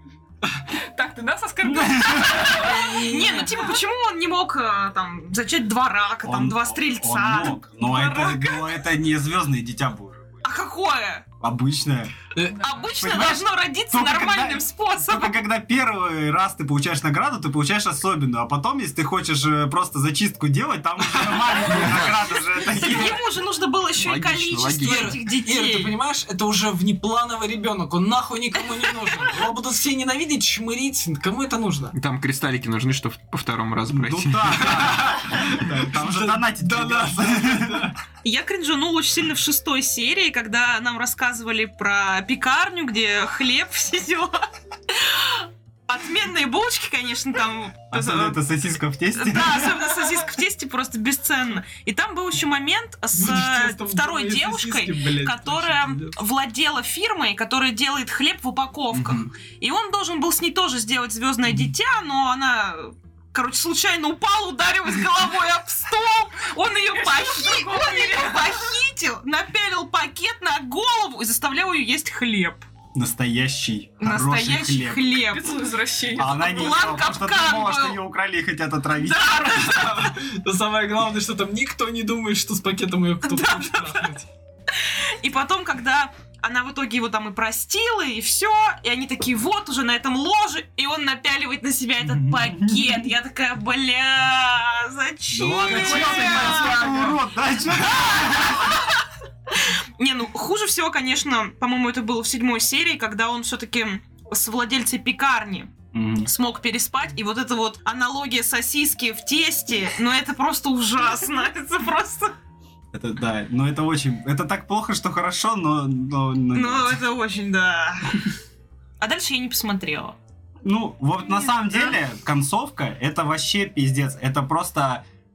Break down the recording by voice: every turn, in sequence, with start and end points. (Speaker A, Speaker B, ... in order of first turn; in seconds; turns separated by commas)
Speaker A: 0.8-3.0, Speaker B: 1.6-2.8, Speaker C: 2.5-8.8, Speaker D: 3.0-3.4, Speaker B: 6.2-10.4, Speaker C: 10.4-11.2, Speaker B: 11.4-12.2, Speaker D: 12.3-12.6, Speaker A: 12.4-12.9, Speaker C: 12.6-15.4, Speaker B: 13.0-23.2, Speaker E: 21.6-22.1, Speaker C: 22.7-25.9, Speaker E: 24.0-25.2, Speaker D: 24.8-31.9, Speaker E: 31.9-35.1, Speaker B: 33.9-37.9, Speaker D: 34.7-38.0, Speaker C: 38.2-48.4, Speaker B: 47.9-49.9, Speaker C: 49.1-72.7, Speaker D: 53.1-56.2, Speaker B: 58.9-59.3, Speaker A: 66.9-68.6, Speaker B: 72.9-75.2, Speaker C: 74.0-75.6, Speaker A: 75.2-76.8, Speaker B: 76.1-79.7, Speaker C: 76.2-78.0, Speaker D: 79.0-84.3, Speaker C: 83.2-84.1, Speaker C: 84.8-97.2, Speaker B: 92.0-93.1, Speaker B: 95.3-98.7, Speaker D: 95.4-97.1, Speaker C: 97.7-98.8, Speaker C: 99.5-105.7, Speaker B: 105.9-106.3, Speaker C: 106.2-112.3, Speaker B: 112.9-117.1, Speaker C: 116.5-118.3, Speaker C: 119.0-120.2, Speaker B: 120.6-125.0, Speaker C: 121.2-122.0